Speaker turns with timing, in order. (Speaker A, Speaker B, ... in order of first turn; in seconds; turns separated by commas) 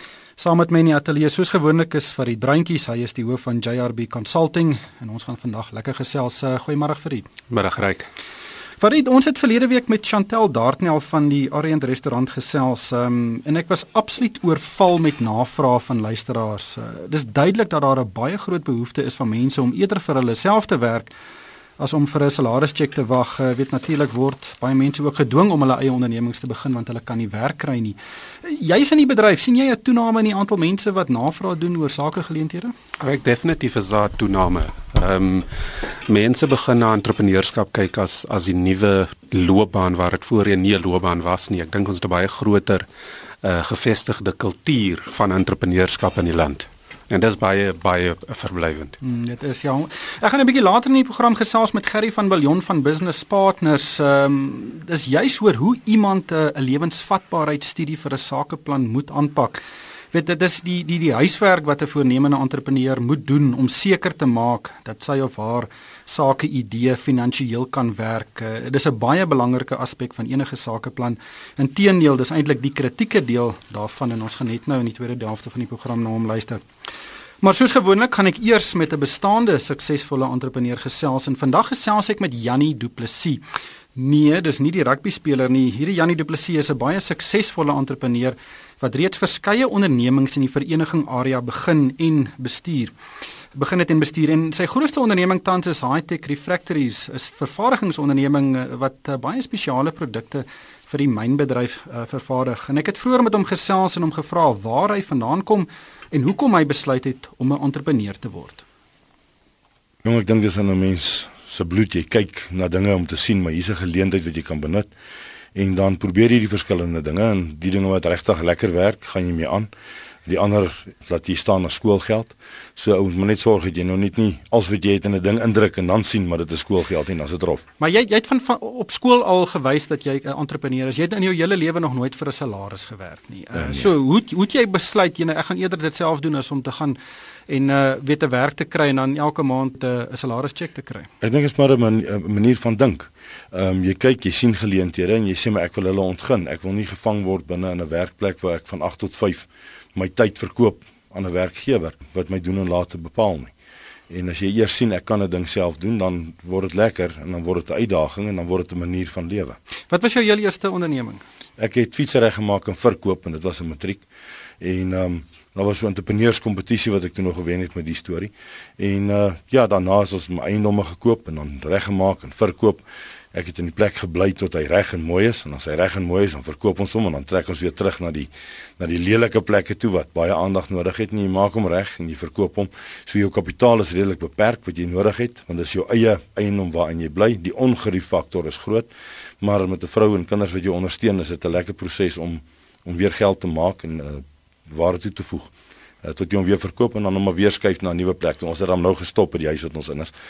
Speaker A: 0.4-7.3, Speaker B: 7.5-8.1, Speaker A: 8.8-21.1, Speaker A: 21.8-32.7, Speaker B: 33.0-42.9, Speaker B: 43.4-49.0, Speaker A: 49.0-76.6, Speaker A: 77.4-83.4, Speaker A: 84.0-92.9, Speaker A: 93.5-108.6, Speaker C: 110.0-114.9, Speaker C: 115.5-119.7, Speaker C: 120.2-127.6, Speaker A: 127.8-141.1, Speaker C: 133.6-133.8, Speaker C: 141.2-153.5, Speaker C: 154.1-159.6, Speaker A: 159.9-161.2, Speaker C: 161.6-164.0, Speaker C: 164.6-172.8, Speaker C: 173.3-188.9, Speaker C: 189.4-195.5, Speaker C: 196.0-200.1